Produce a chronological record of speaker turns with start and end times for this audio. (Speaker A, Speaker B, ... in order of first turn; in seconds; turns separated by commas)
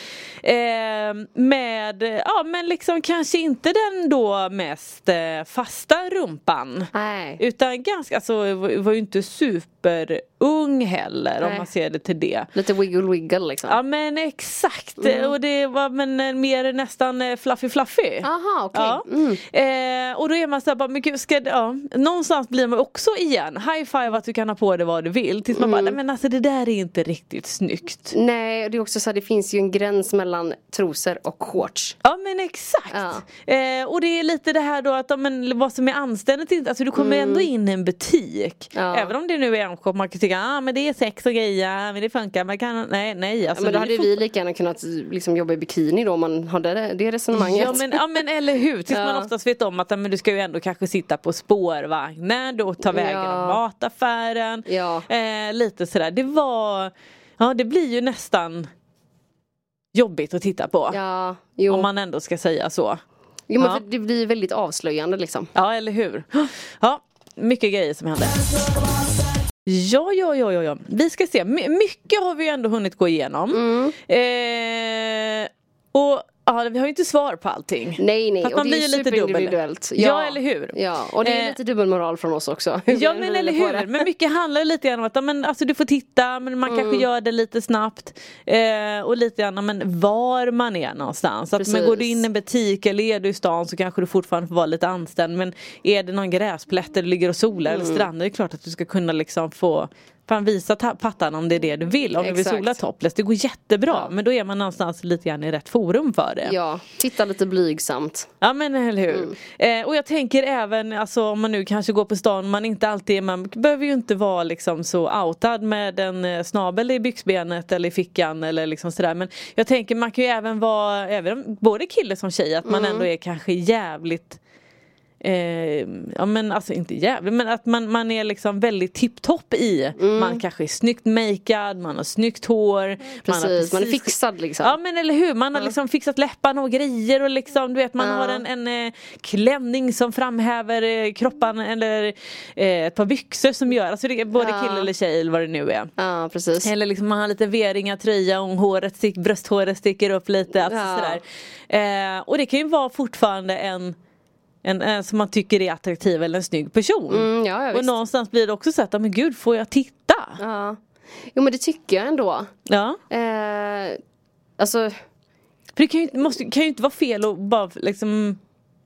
Speaker A: 0.4-12.5, Speaker B: 6.9-7.4, Speaker B: 11.4-11.7, Speaker B: 12.5-13.8, Speaker A: 13.7-28.1, Speaker B: 15.0-15.3, Speaker B: 18.2-19.4, Speaker B: 25.5-26.0, Speaker B: 28.1-31.9, Speaker A: 32.0-44.2, Speaker B: 32.9-33.2, Speaker B: 37.0-37.5, Speaker B: 38.7-39.1, Speaker B: 43.5-47.9, Speaker A: 47.3-58.7, Speaker B: 48.9-49.3, Speaker B: 52.9-53.6, Speaker B: 54.7-55.1, Speaker A: 59.9-61.0, Speaker B: 60.9-61.9, Speaker A: 61.7-63.0, Speaker B: 63.5-65.5, Speaker A: 65.5-68.4, Speaker A: 69.7-81.5, Speaker B: 73.5-74.0, Speaker B: 78.0-84.0, Speaker A: 82.9-106.5, Speaker B: 86.7-87.1, Speaker B: 91.6-92.2, Speaker B: 97.7-98.0, Speaker B: 102.2-102.8, Speaker B: 106.4-108.3, Speaker A: 108.4-124.4, Speaker B: 122.7-123.1, Speaker A: 125.2-145.9, Speaker B: 130.0-130.4, Speaker B: 133.2-134.7, Speaker B: 138.0-138.4, Speaker B: 144.3-144.9, Speaker B: 146.0-146.7, Speaker A: 146.6-153.9, Speaker B: 150.6-151.2, Speaker A: 154.6-160.4, Speaker B: 157.1-157.9, Speaker B: 160.4-160.8, Speaker B: 161.3-162.5, Speaker A: 162.7-163.0, Speaker B: 163.1-164.0, Speaker B: 164.6-164.9, Speaker A: 165.8-168.4